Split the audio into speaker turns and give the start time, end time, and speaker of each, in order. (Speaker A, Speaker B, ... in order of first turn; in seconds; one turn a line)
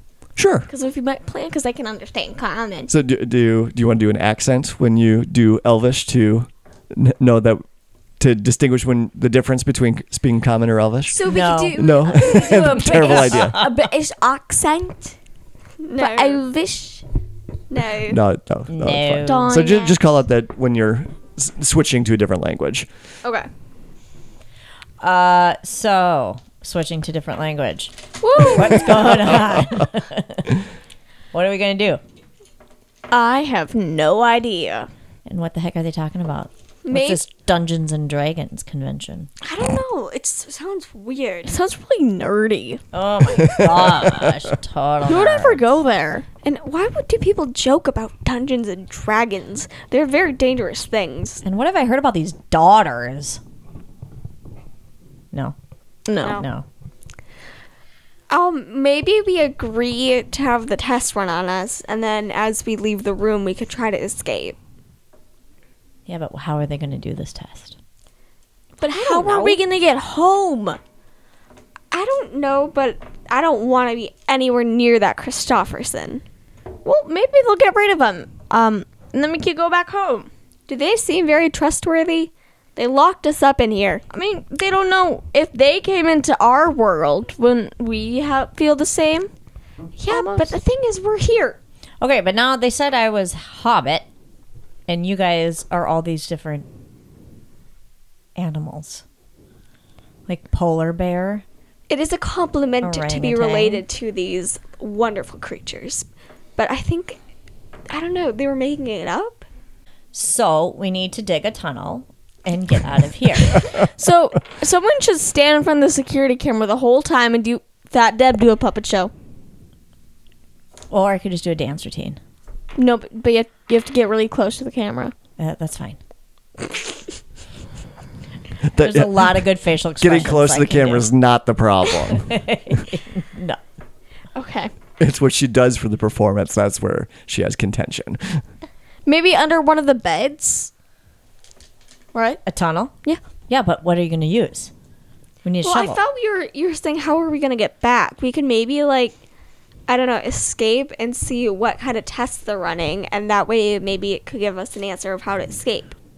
Speaker A: 0.3-0.7
Speaker B: 0.7-2.9
Speaker A: 2.9-7.6
Speaker A: 8.2-11.2
Speaker C: 11.1-12.8
Speaker B: 11.2-15.2
Speaker D: 11.2-13.9
Speaker A: 11.7-13.6
Speaker C: 15.8-16.4
Speaker B: 16.0-17.0
Speaker C: 17.7-18.2
Speaker A: 18.1-22.9
Speaker D: 18.7-19.7
Speaker B: 19.2-20.0
Speaker D: 25.0-30.6
Speaker C: 28.3-29.2
Speaker D: 31.3-32.0
Speaker B: 33.1-34.9
Speaker D: 35.2-39.3
Speaker C: 36.8-37.2
Speaker C: 39.4-41.5
Speaker B: 41.5-42.8
Speaker D: 42.9-45.7
Speaker A: 43.4-44.3
Speaker B: 45.0-46.2
Speaker C: 46.4-51.4
Speaker D: 51.4-53.4
Speaker B: 56.1-56.4
Speaker D: 56.2-56.6
Speaker C: 58.3-64.6
Speaker D: 66.1-67.8
Speaker C: 68.8-69.6
Speaker B: 68.8-70.8
Speaker C: 71.9-76.2
Speaker B: 76.8-80.3
Speaker C: 80.7-84.0
Speaker B: 84.1-89.3
Speaker C: 90.0-91.6
Speaker B: 90.1-90.6
Speaker D: 92.0-94.1
Speaker D: 94.9-96.7
Speaker D: 98.3-99.0
Speaker D: 100.3-101.4
Speaker C: 101.9-107.2
Speaker D: 102.8-103.8
Speaker C: 107.9-109.4
Speaker D: 110.1-113.7
Speaker B: 113.9-119.1
Speaker D: 120.9-122.2
Speaker B: 122.8-125.1
Speaker D: 125.4-126.0
Speaker A: 128.6-129.4
Speaker D: 128.8-131.1
Speaker A: 130.0-132.4
Speaker D: 132.1-133.6
Speaker B: 134.3-134.7
Speaker A: 135.0-138.4
Speaker B: 139.1-140.7
Speaker B: 142.1-142.4
Speaker D: 142.4-142.9
Speaker D: 143.5-144.7
Speaker D: 145.4-146.0
Speaker C: 145.6-149.2
Speaker C: 149.9-155.9